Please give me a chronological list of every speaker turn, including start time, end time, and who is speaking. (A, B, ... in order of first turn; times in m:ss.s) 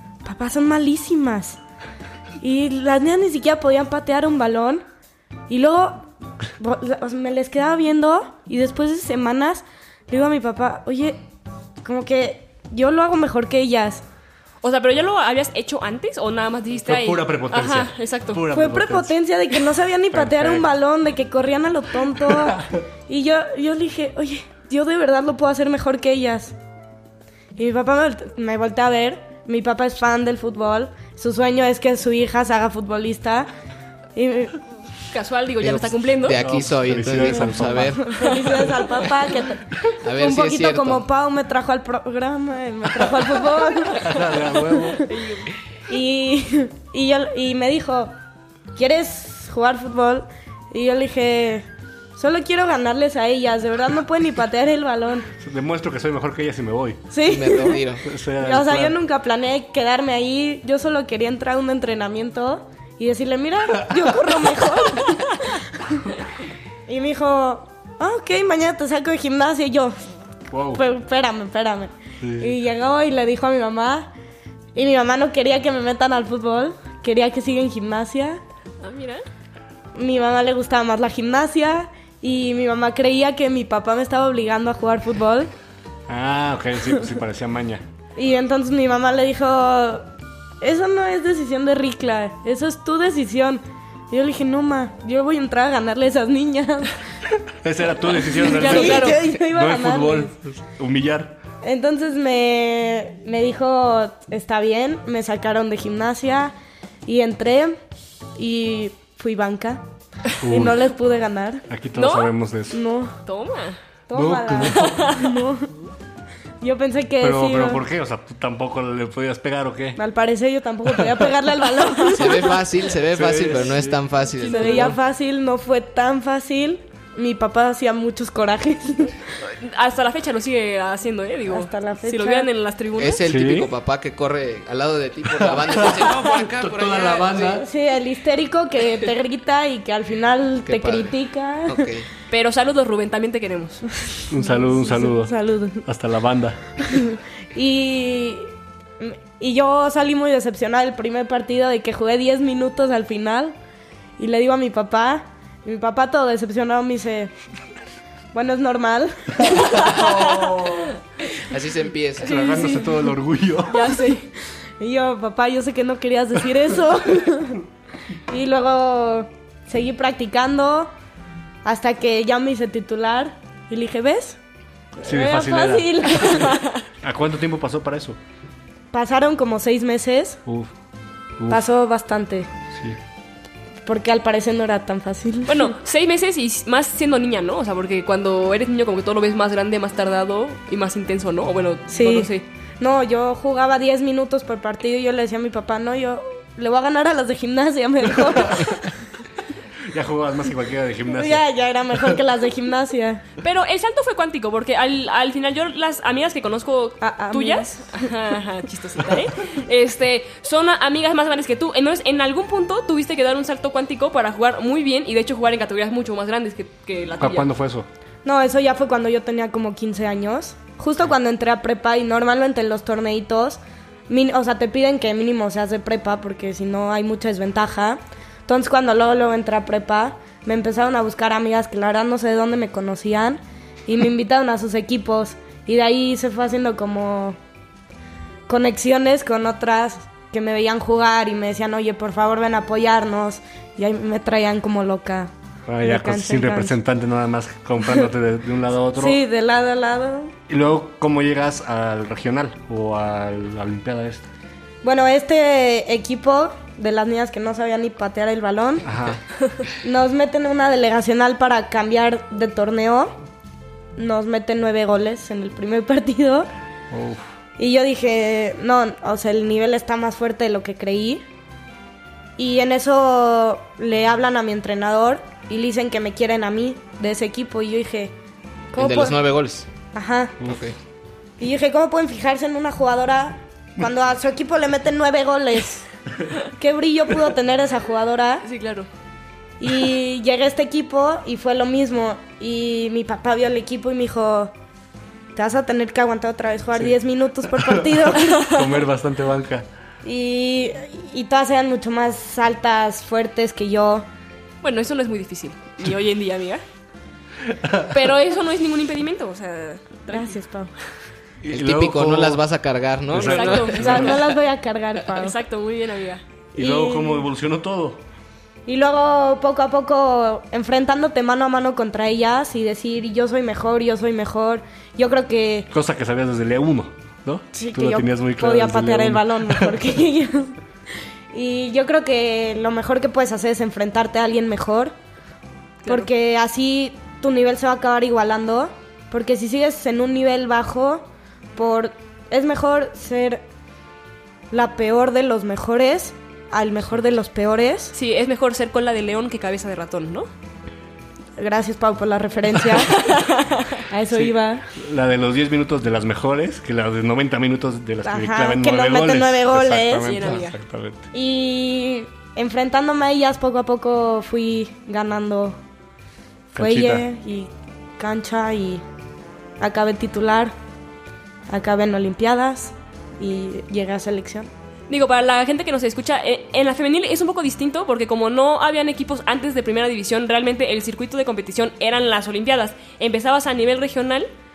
0:00.2-0:01.6 A
0:02.4-0:04.8 A
0:05.5-0:06.1 A
0:06.6-0:11.2 A
0:11.8-0:14.0 A
0:14.6-0:18.4 B
0:16.8-0:19.2 C
0:18.5-0:26.5 A
0:20.1-0:20.7 C
0:27.6-0:33.5 A
0:34.2-0:34.6 A
0:35.1-0:36.4 B
0:35.6-0:38.7 D
0:36.3-0:38.0 C
0:38.0-0:44.9 A
0:38.2-0:38.5 B
0:39.9-0:41.1 D
0:43.9-0:45.1 C
0:44.9-0:45.5 B
0:45.9-0:48.1 A
0:48.8-0:51.6 A
0:52.2-0:55.3 A
0:55.4-0:57.0 C
0:57.1-0:57.8 A
0:57.2-0:58.0 D
0:58.0-0:59.0 C
0:58.4-1:06.2 A
1:06.9-1:10.0 A
1:10.5-1:10.8 C
1:10.7-1:14.1 A
1:12.2-1:12.6 C
1:14.8-1:18.4 A
1:18.8-1:19.2 B
1:20.0-1:25.5 A
1:26.1-1:27.8 C
1:28.2-1:30.1 A
1:30.6-1:37.0 A
1:37.6-1:41.4 C
1:38.2-1:40.3 A
1:38.5-1:39.3 B
1:41.6-1:46.5 A
1:47.1-1:47.8 A
1:48.4-1:49.8 A
1:50.4-1:50.8 C
1:50.4-1:51.6 A
1:51.7-1:52.8 C
1:52.0-1:52.3 B
1:52.7-1:53.1 A
1:53.2-1:53.8 B
1:54.1-1:55.7 A
1:54.1-1:55.2 C
1:56.6-1:57.8 A
1:57.2-2:00.0 C
2:00.0-2:02.7 A
2:00.9-2:01.2 C
2:02.1-2:04.9 D
2:03.1-2:04.0 C
2:04.4-2:05.0 B
2:04.4-2:09.2 A
2:09.4-2:13.2 B
2:11.5-2:12.5 A
2:13.0-2:17.6 D
2:13.2-2:13.7 C
2:15.6-2:17.7 C
2:17.5-2:21.9 A
2:20.7-2:22.1 D
2:22.3-2:23.8 B
2:24.1-2:25.8 A
2:24.3-2:26.8 C
2:26.9-2:28.5 A
2:29.0-2:33.6 A
2:34.2-2:37.3 A
2:38.3-2:40.3 A
2:39.8-2:40.8 B
2:40.0-2:40.8 C
2:41.5-2:42.4 D
2:42.2-2:43.9 C
2:42.2-2:42.9 B
2:43.7-2:44.3 B
2:44.8-2:47.6 A
2:48.3-2:50.9 A
2:51.6-2:54.4 A
2:55.0-2:58.2 C
2:55.0-2:56.6 A
2:56.4-2:56.8 B
2:58.9-3:00.4 A
3:00.5-3:00.7 C
3:01.5-3:02.5 A
3:02.7-3:03.0 C
3:03.9-3:05.7 A
3:05.5-3:12.5 B
3:11.9-3:18.9 A
3:19.9-3:21.4 C
3:21.1-3:23.2 A
3:23.4-3:37.5 B
3:27.0-3:27.7 A
3:37.2-3:37.9 C
3:38.2-3:57.4 A
3:58.5-4:05.3 A
4:05.7-4:09.2 C
4:05.8-4:06.8 A
4:09.0-4:10.3 A
4:10.5-4:14.2 C
4:14.8-4:18.9 A
4:18.8-4:19.2 C
4:19.8-4:23.1 A
4:24.0-4:26.5 A
4:26.9-4:27.2 C
4:27.6-4:31.2 A
4:32.4-4:38.1 A
4:38.7-4:39.2 A
4:38.8-4:39.7 D
4:39.9-4:40.4 A
4:40.4-4:40.8 D
4:41.4-4:45.9 A
4:46.6-4:48.4 A
4:48.4-4:48.9 B
4:49.6-4:54.5 A
4:55.4-4:58.5 A
4:58.4-4:59.7 C
5:00.0-5:04.0 A
5:04.6-5:06.6 B
5:07.5-5:07.9 C
5:07.9-5:10.4 B
5:10.1-5:10.7 A
5:11.4-5:12.4 C
5:11.5-5:14.2 D
5:13.1-5:14.3 C
5:13.2-5:14.1 B
5:13.8-5:15.4 A
5:15.2-5:16.2 B
5:16.6-5:17.3 A
5:16.6-5:18.0 C
5:18.7-5:25.7 A
5:25.7-5:29.7 C
5:27.5-5:30.6 A
5:31.3-5:34.9 A
5:35.8-5:36.1 B
5:35.9-5:43.4 A
5:44.5-5:47.9 A
5:47.9-5:50.3 B
5:51.4-5:53.1 A
5:52.8-5:53.8 B
5:53.9-5:54.6 A
5:54.1-6:01.1 C
5:58.0-6:00.3 A
6:00.0-6:00.6 B
6:01.1-6:05.6 A
6:06.5-6:08.8 A
6:06.6-6:07.0 C
6:09.6-6:10.5 A
6:11.5-6:14.5 A
6:14.9-6:24.3 B